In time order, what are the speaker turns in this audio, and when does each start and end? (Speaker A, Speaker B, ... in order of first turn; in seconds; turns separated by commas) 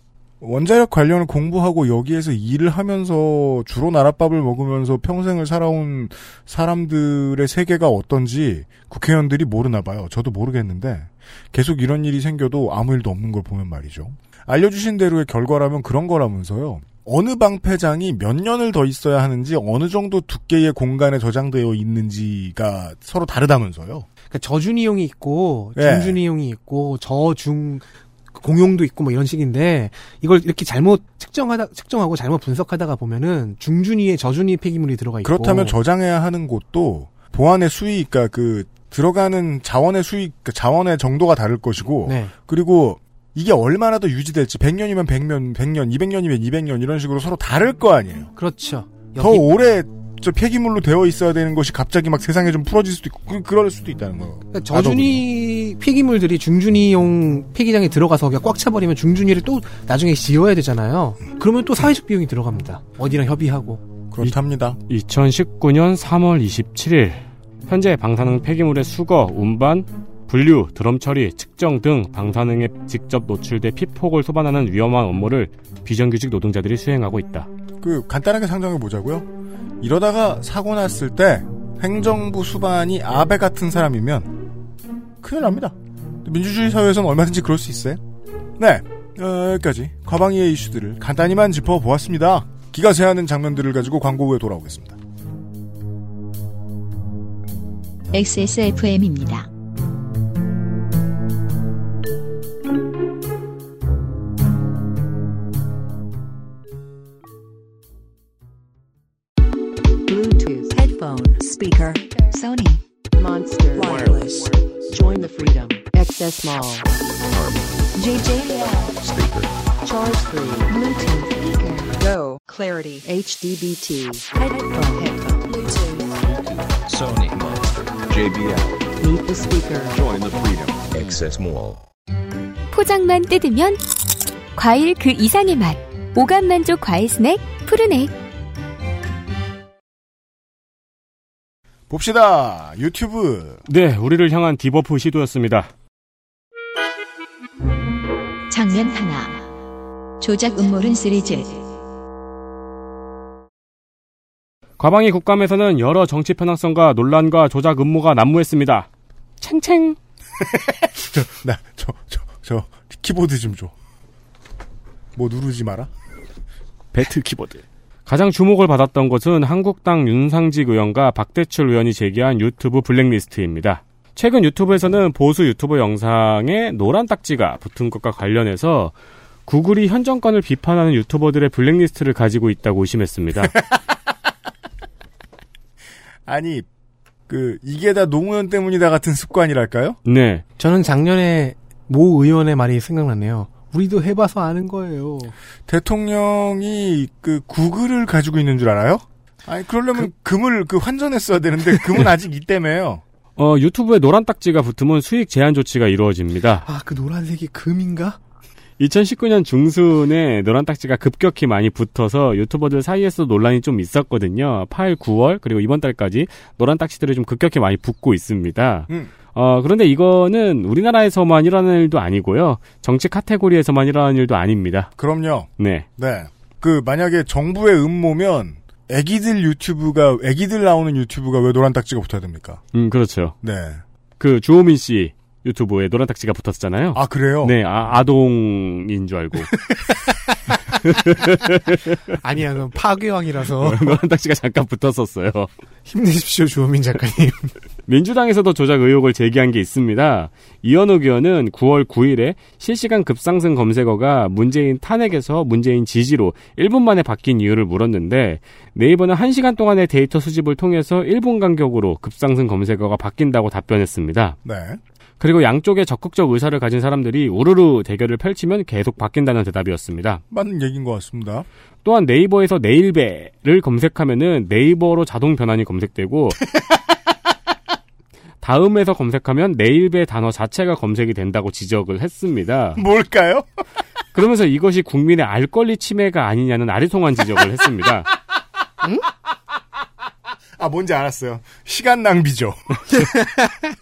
Speaker A: 0.4-24.1, Speaker B: 24.3-35.8, Speaker A: 25.8-26.2, Speaker A: 35.2-48.3, Speaker B: 42.1-42.3, Speaker B: 48.4-49.5, Speaker A: 49.1-55.2, Speaker B: 54.5-63.8, Speaker A: 64.1-64.8, Speaker C: 64.9-77.5, Speaker A: 77.8-79.3, Speaker A: 79.8-84.4, Speaker A: 85.2-88.0, Speaker A: 88.6-95.0, Speaker D: 98.1-99.5, Speaker E: 110.1-112.4, Speaker F: 112.3-112.8, Speaker E: 113.2-116.9, Speaker G: 117.2-117.8, Speaker E: 118.0-118.9, Speaker G: 119.0-119.5, Speaker E: 119.8-126.0, Speaker G: 126.2-128.9, Speaker E: 129.0-129.9, Speaker G: 129.9-131.8, Speaker F: 132.7-133.8, Speaker F: 134.6-138.1, Speaker A: 141.9-143.6, Speaker C: 143.7-145.7, Speaker D: 148.5-149.4, Speaker D: 150.2-151.6, Speaker C: 154.8-158.9, Speaker C: 159.4-160.0, Speaker A: 160.5-163.7, Speaker A: 165.2-165.9, Speaker C: 166.9-178.9, Speaker C: 179.5-183.5, Speaker A: 183.4-183.9, Speaker A: 186.3-186.7, Speaker A: 187.3-190.0, Speaker C: 190.1-190.4, Speaker B: 190.6-195.3, Speaker A: 195.7-203.0, Speaker C: 203.4-206.7, Speaker B: 206.7-208.2, Speaker C: 208.8-224.9, Speaker A: 225.0-232.6, Speaker C: 225.6-225.9, Speaker C: 232.7-233.3, Speaker A: 233.4-233.8, Speaker C: 234.2-239.7, Speaker A: 236.9-237.6, Speaker C: 240.7-241.9, Speaker B: 242.2-244.0, Speaker C: 243.6-245.5, Speaker B: 245.9-247.5, Speaker C: 247.9-264.4, Speaker A: 264.4-264.8, Speaker C: 265.2-270.2, Speaker A: 270.3-271.5, Speaker C: 271.8-276.4, Speaker C: 278.4-282.8, Speaker A: 282.8-283.6, Speaker C: 284.1-288.1, Speaker A: 290.6-293.2